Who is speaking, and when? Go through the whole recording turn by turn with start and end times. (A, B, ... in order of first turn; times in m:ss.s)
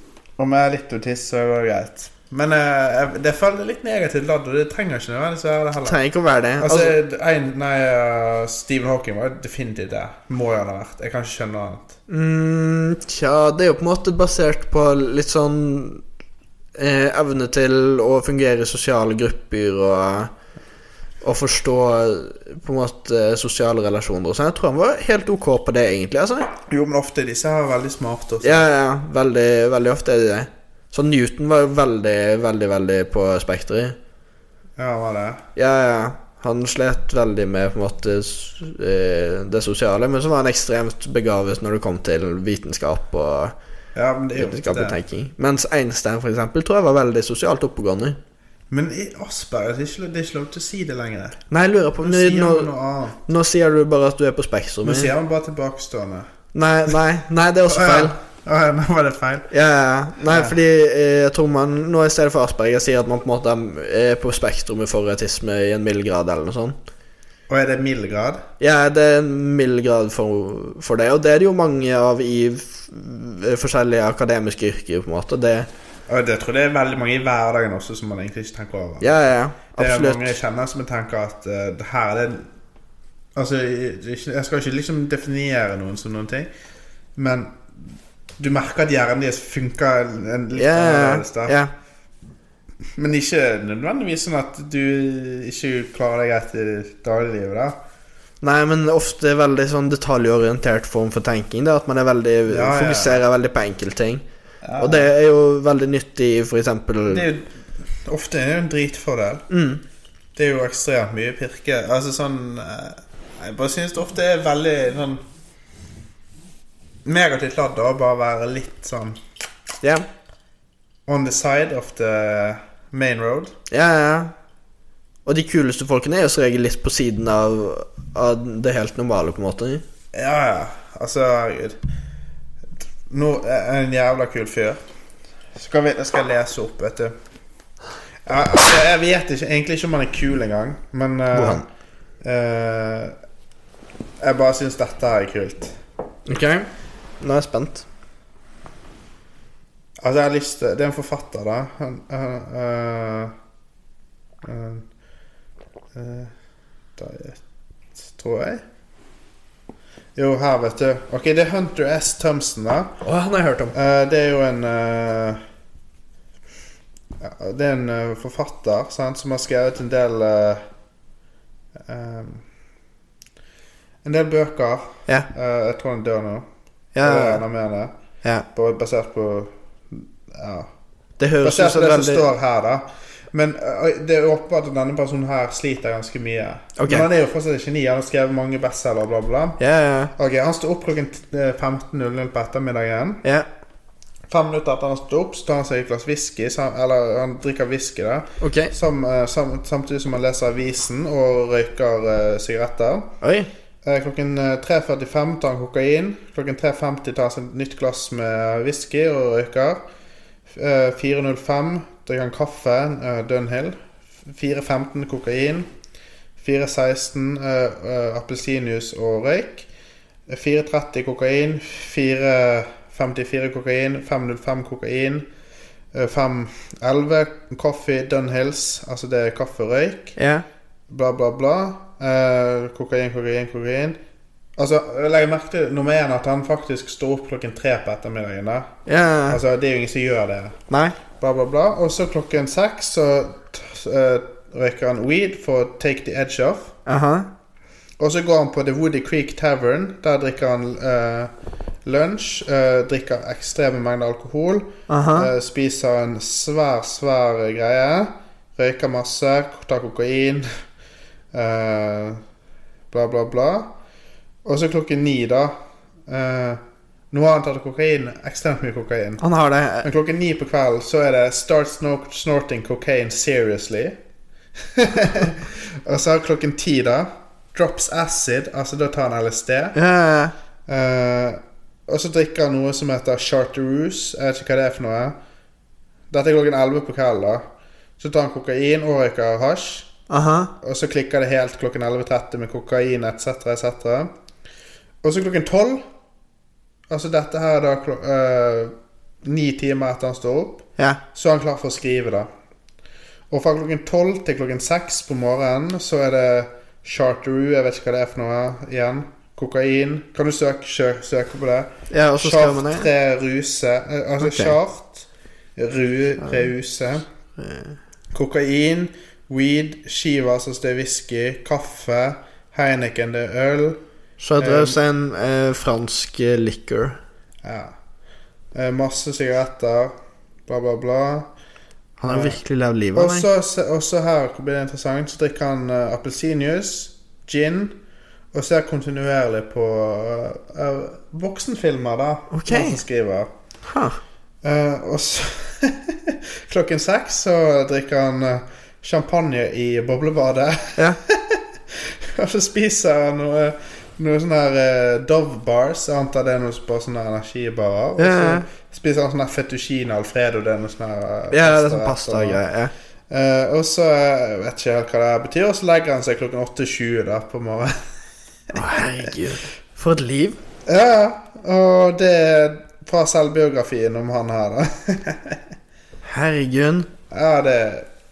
0:00.4-0:06.0 A
0:05.8-0:07.0 B
0:06.6-0:12.0 A
0:12.1-0:16.0 B
0:16.8-0:20.3 B
0:21.2-0:26.5 B
0:26.7-0:28.6 A
0:28.4-0:34.0 B
0:34.8-0:35.4 A
0:35.6-0:43.5 B
0:44.0-0:45.0 A
0:44.4-0:48.2 B
0:48.7-0:51.4 A
0:51.5-0:52.7 B
0:52.0-0:53.2 A
0:53.3-0:55.1 B
0:54.8-0:56.3 A
0:56.5-0:58.2 B
0:57.7-0:59.5 A
0:59.5-1:06.8 B
1:00.3-1:00.6 A
1:07.5-1:08.4 A
1:08.6-1:15.7 B
1:16.1-1:19.2 A
1:19.0-1:20.3 B
1:19.8-1:22.5 A
1:23.4-1:26.5 A
1:27.2-1:27.6 A
1:28.4-1:31.6 A
1:30.5-1:31.7 B
1:33.0-1:37.8 A
1:38.4-1:44.2 B
1:42.5-1:43.2 A
1:44.6-1:45.1 A
1:44.8-1:47.3 B
1:47.1-1:49.5 A
1:49.5-1:49.8 B
1:50.4-1:55.2 A
1:57.0-1:59.2 A
2:01.1-2:03.5 A
2:03.7-2:04.3 B
2:05.3-2:09.8 B
2:10.1-2:11.8 A
2:13.1-2:14.8 A
2:15.6-2:17.2 A
2:18.3-2:21.6 A
2:21.3-2:21.7 B
2:22.2-2:23.2 A
2:24.2-2:25.8 A
2:26.3-2:26.7 B
2:27.2-2:27.9 B
2:30.0-2:33.4 A
2:34.4-2:34.9 A
2:35.9-2:36.3 A
2:37.0-2:37.4 A
2:38.0-2:38.6 A
2:40.2-2:43.0 A
2:43.0-2:43.8 B
2:43.7-2:45.4 A
2:47.2-2:50.7 A
2:51.8-2:52.4 A
2:54.0-2:56.5 A
2:57.0-2:57.4 B
2:57.0-2:57.9 A
2:58.5-3:00.7 A
3:01.2-3:02.3 B
3:01.4-3:09.6 A
3:06.8-3:07.1 B
3:09.6-3:10.1 B
3:10.2-3:13.2 A
3:14.3-3:23.1 A
3:18.4-3:18.7 B
3:23.2-3:23.5 B
3:23.8-3:29.8 A
3:30.5-3:35.7 A
3:36.4-3:39.7 A
3:40.3-3:45.3 A
3:45.9-3:50.2 A
3:50.2-3:50.5 B
3:50.9-3:54.0 A
3:54.6-4:00.6 A
3:58.9-3:59.4 B
4:00.7-4:01.0 B
4:01.2-4:06.8 A
4:06.9-4:07.3 B
4:08.0-4:11.3 A
4:11.8-4:20.5 A
4:14.9-4:15.3 B
4:21.3-4:22.2 A
4:22.9-4:23.8 A
4:24.4-4:29.2 A
4:29.2-4:29.9 B
4:29.8-4:34.0 A
4:34.6-4:39.8 A
4:39.7-4:40.4 B
4:40.7-4:45.2 A
4:46.1-4:47.5 A
4:48.0-4:49.9 A
4:50.1-4:50.6 B
4:50.6-4:54.1 A
4:55.0-4:55.8 A
4:56.9-5:02.3 A
5:03.3-5:17.1 A
5:11.9-5:12.9 B
5:14.2-5:14.6 B
5:17.4-5:17.8 B
5:18.1-5:23.8 A
5:24.2-5:27.0 B
5:24.4-5:24.8 A
5:27.4-5:27.8 A
5:28.5-5:30.0 A
5:30.5-5:31.3 A
5:32.0-5:33.3 B
5:32.1-5:32.4 A
5:33.0-5:37.8 A
5:38.3-5:43.3 A
5:42.3-5:42.8 B
5:43.6-5:44.0 B
5:44.4-6:02.4 A
5:58.0-5:58.5 B
6:01.3-6:02.7 B
6:03.1-6:07.8 A
6:08.5-6:09.1 A
6:08.5-6:10.4 B
6:10.7-6:15.4 A
6:16.0-6:16.9 B
6:17.1-6:17.9 A